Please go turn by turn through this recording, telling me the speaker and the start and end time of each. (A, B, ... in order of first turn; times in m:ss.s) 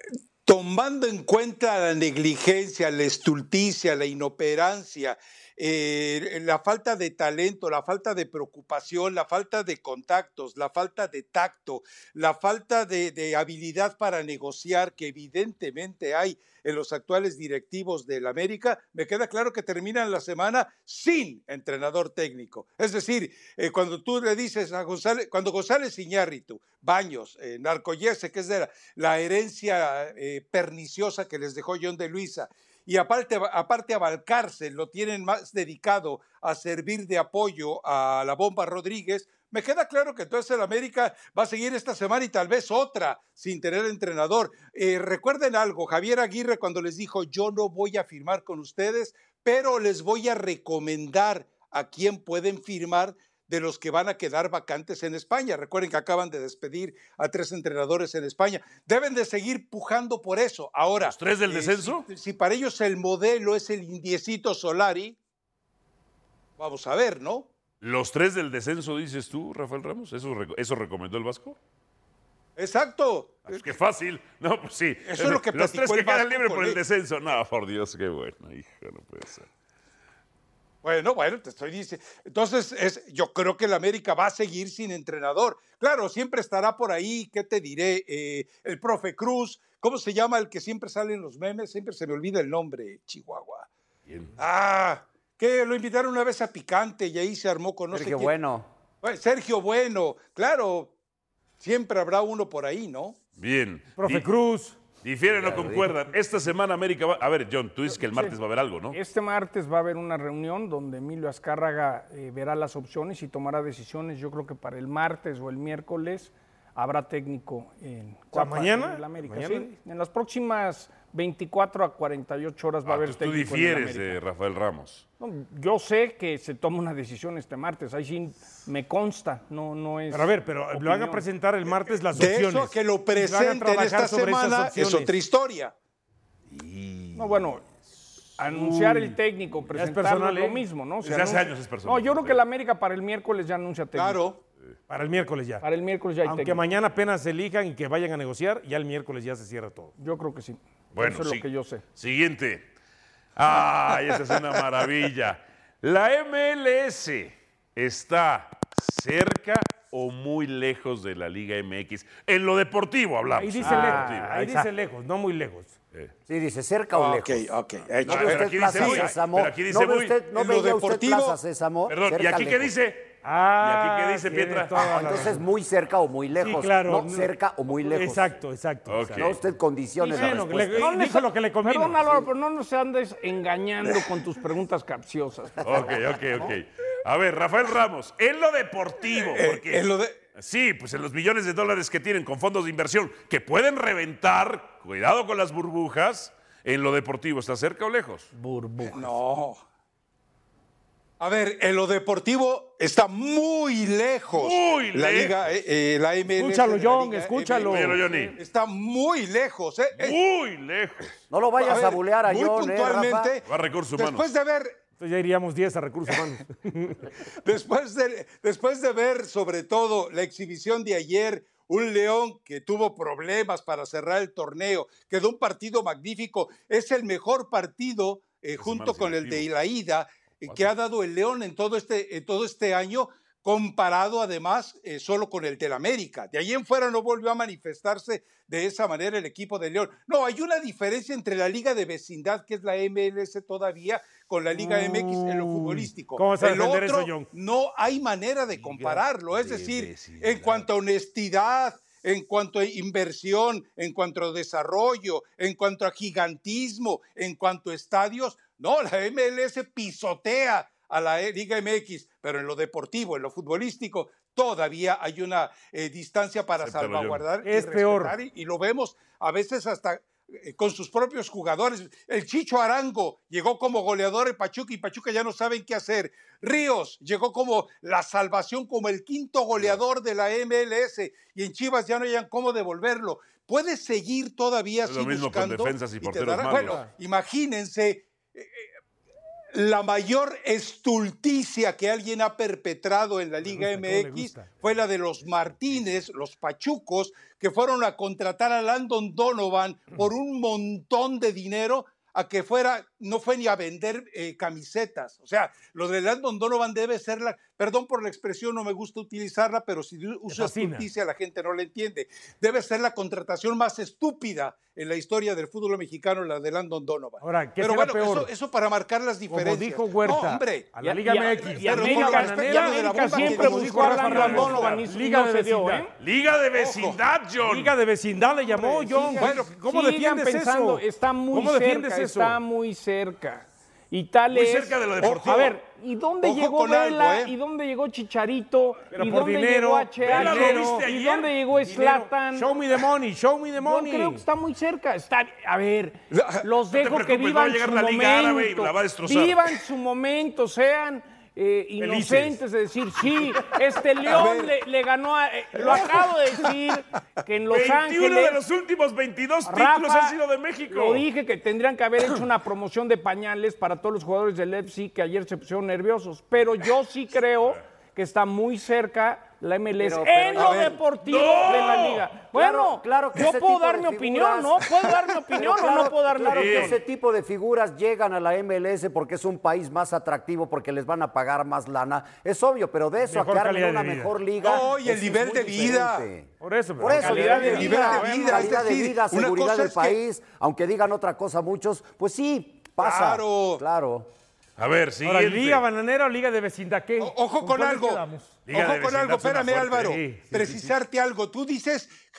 0:00.4-1:05.2 A
1:01.0-1:02.1 B
1:06.6-1:07.5 A
1:07.8-1:11.6 B
1:12.6-1:13.6 A
1:13.4-1:19.5 B
1:15.0-1:16.8 A
1:20.8-1:33.7 A
1:34.1-1:34.3 B
1:34.4-1:38.3 A
1:37.9-1:38.7 C
1:39.0-1:40.9 A
1:41.6-1:43.2 A
1:43.4-1:44.3 B
1:44.0-1:44.8 D
1:45.0-1:49.0 B
1:45.3-1:45.9 C
1:47.9-1:48.3 E
1:48.9-2:04.2 E
1:58.3-1:59.7 D
2:02.8-2:05.0 B
2:05.2-2:11.2 E
2:10.1-2:15.1 D
2:12.1-2:15.7 A
2:16.5-2:17.5 B
2:17.1-2:17.6 E
2:18.4-2:24.2 E
2:18.6-2:19.1 B
2:19.7-2:20.6 D
2:21.0-2:22.4 B
2:23.9-2:24.4 A
2:24.9-2:25.6 D
2:25.6-2:26.6 E
2:26.2-2:29.9 D
2:30.0-2:31.8 E
2:30.9-2:32.7 B
2:33.4-2:44.6 B
2:43.3-2:45.7 D
2:43.6-2:44.6 E
2:46.3-2:47.5 C
2:46.9-2:49.1 A
2:48.0-2:50.2 B
2:48.0-2:52.7 C
2:50.3-2:51.4 A
2:51.9-2:55.2 B
2:53.2-2:55.4 D
2:54.7-2:58.4 C
2:56.4-2:59.3 D
2:58.9-2:59.4 B
2:59.2-3:00.9 C
3:00.1-3:02.1 D
3:00.1-3:06.2 E
3:05.6-3:18.3 B
3:09.1-3:10.2 A
3:18.3-3:19.1 E
3:18.9-3:19.6 A
3:21.2-3:30.2 A
3:24.3-3:25.5 B
3:26.3-3:28.0 D
3:27.6-3:28.4 B
3:28.0-3:28.3 E
3:30.0-3:31.2 B
3:31.3-3:33.3 C
3:31.6-3:34.8 A
3:33.4-3:34.2 B
3:35.0-3:37.0 D
3:37.4-4:48.6 A
3:48.6-3:49.5 B
4:04.5-4:07.3 D
4:08.6-4:10.6 B
4:26.6-4:27.2 B
4:27.4-4:28.1 D
4:44.8-4:46.9 B
4:49.5-5:20.7 A
4:53.4-4:54.6 D
5:10.3-5:10.9 D
5:17.2-5:18.3 D
5:19.3-5:25.9 D
5:20.8-5:25.9 E
5:21.5-5:24.8 A
5:26.0-5:27.7 B
5:26.5-5:27.0 A
5:27.4-5:32.4 D
5:28.2-5:42.5 E
5:29.1-5:29.5 A
5:34.3-5:35.5 B
5:35.0-5:35.5 A
5:36.2-5:37.3 A
5:38.9-5:40.8 D
5:40.0-5:41.3 B
5:41.5-5:44.2 D
5:43.6-5:58.4 E
5:46.1-5:46.4 A
5:46.7-5:49.5 B
5:51.8-5:52.4 D
5:54.1-5:54.6 A
5:57.5-6:01.0 B
5:59.4-6:16.8 E
6:09.8-6:10.8 C
6:10.3-6:10.8 A
6:11.0-6:12.1 B
6:12.3-6:34.1 C
6:16.3-6:16.8 B
6:23.0-6:24.1 D
6:24.4-6:26.1 A
6:26.4-6:28.0 D
6:26.9-6:28.6 E
6:27.4-6:30.0 A
6:32.8-6:33.6 A
6:34.6-6:35.6 B
6:35.0-6:38.4 D
6:37.0-6:41.9 A
6:38.5-6:40.0 B
6:39.9-6:40.7 D